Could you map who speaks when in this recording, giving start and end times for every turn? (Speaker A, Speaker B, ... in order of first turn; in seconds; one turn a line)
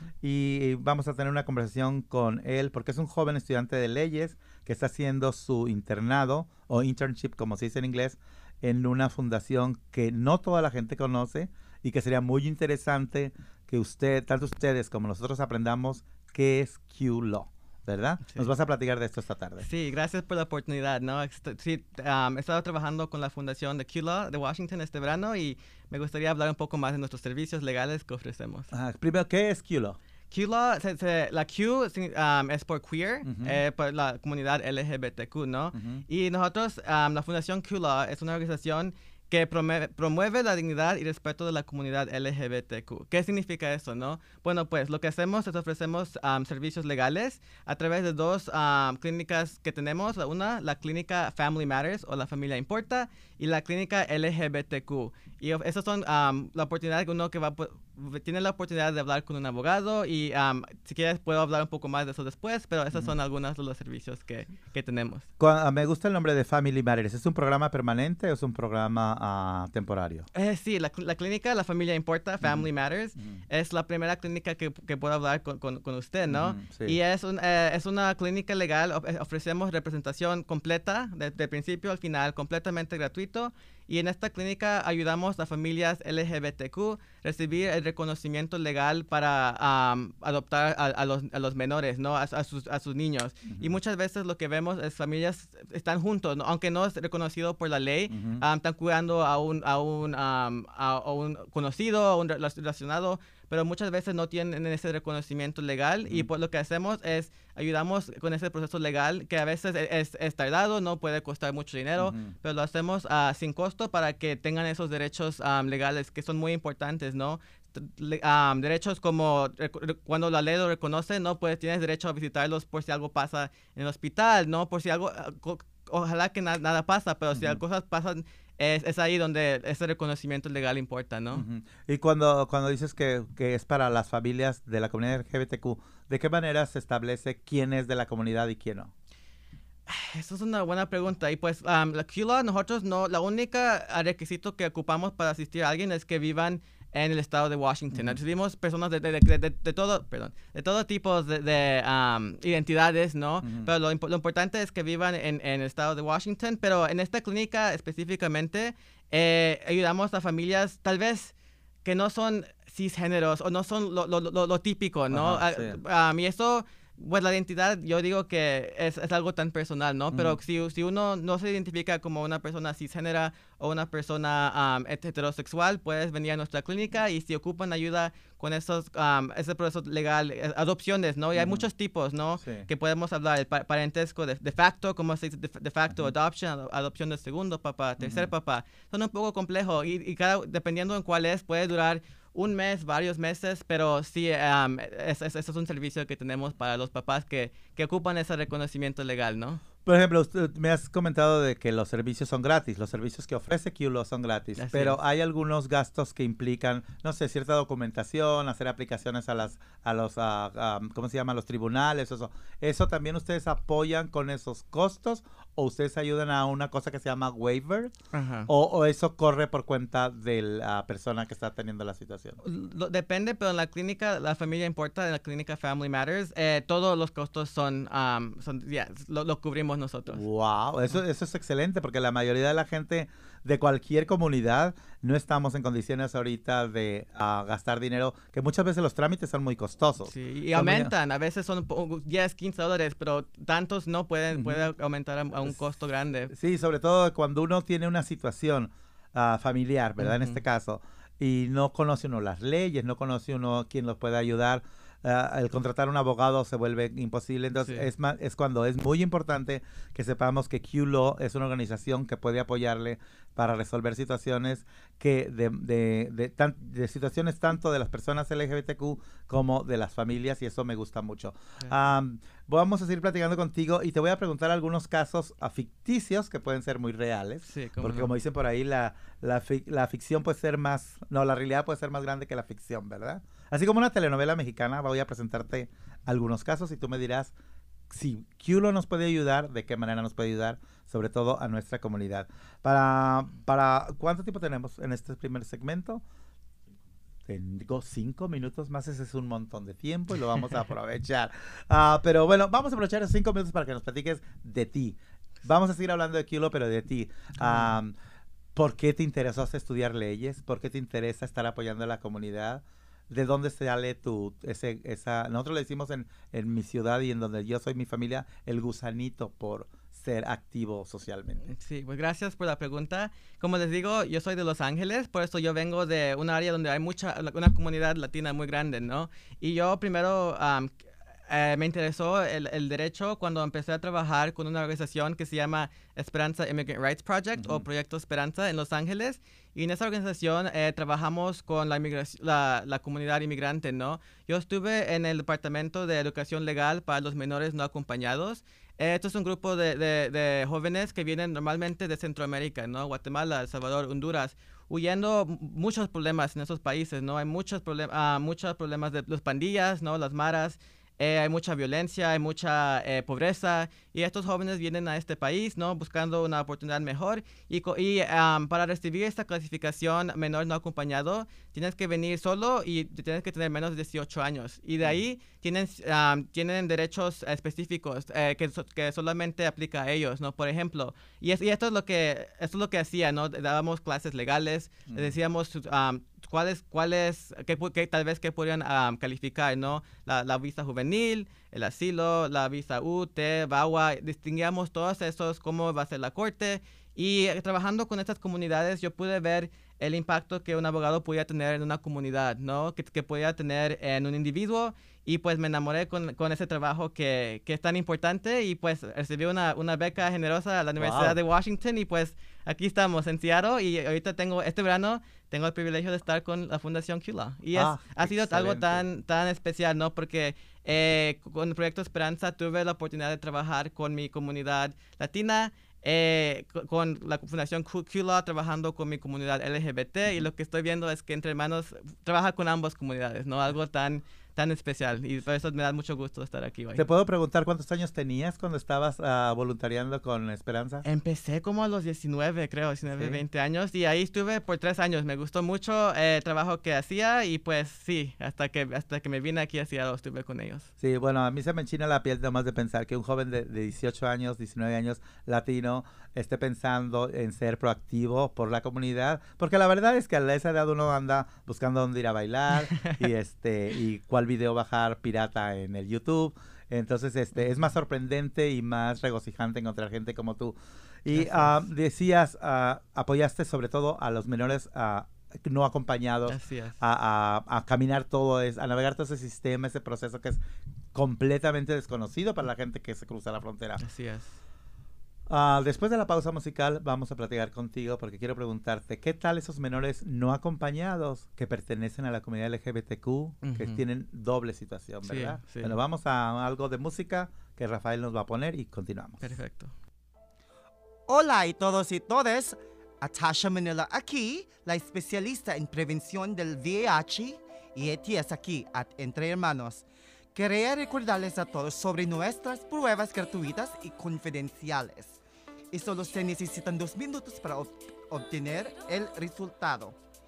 Speaker A: 0.2-19.7
Speaker B: 19.6-28.7
Speaker A: 28.7-30.0
Speaker B: 30.3-65.3
Speaker A: 33.2-33.6
Speaker A: 35.7-36.0
Speaker A: 65.4-70.3
Speaker B: 70.3-131.4
Speaker A: 76.3-77.0
Speaker A: 93.5-93.7
Speaker A: 98.1-98.4
Speaker A: 112.0-112.3
Speaker A: 127.3-127.6
Speaker A: 131.3-138.9
Speaker B: 139.9-161.3
Speaker A: 153.4-153.7
Speaker B: 161.8-199.6
Speaker A: 165.1-165.8
Speaker A: 170.1-170.4
Speaker A: 181.3-181.7
Speaker A: 182.4-182.7
Speaker A: 188.0-188.3
Speaker A: 199.8-217.9
Speaker B: 204.6-205.0
Speaker B: 218.1-218.5
Speaker A: 218.5-222.4
Speaker B: 222.4-230.2
Speaker A: 230.1-240.9
Speaker B: 240.1-246.3
Speaker A: 244.3-244.6
Speaker A: 246.3-287.3
Speaker B: 250.0-250.4
Speaker B: 277.5-278.1
Speaker A: 287.9-296.0
Speaker A: 297.3-307.9
Speaker B: 307.4-307.8
Speaker A: 308.6-321.5
Speaker B: 321.5-330.7
Speaker B: 331.3-436.9
Speaker A: 337.4-337.6
Speaker A: 384.9-385.1
Speaker A: 410.8-411.2
Speaker A: 417.5-418.8
Speaker A: 436.8-440.9
Speaker B: 440.9-450.7
Speaker A: 442.9-443.2
Speaker A: 450.8-480.4
Speaker B: 471.1-471.6
Speaker B: 476.3-476.8
Speaker A: 480.9-483.8
Speaker B: 483.8-484.4
Speaker A: 485.3-499.3
Speaker B: 493.4-493.8
Speaker B: 495.1-495.8
Speaker B: 499.2-499.7
Speaker C: 501.1-515.2
Speaker C: 515.7-520.0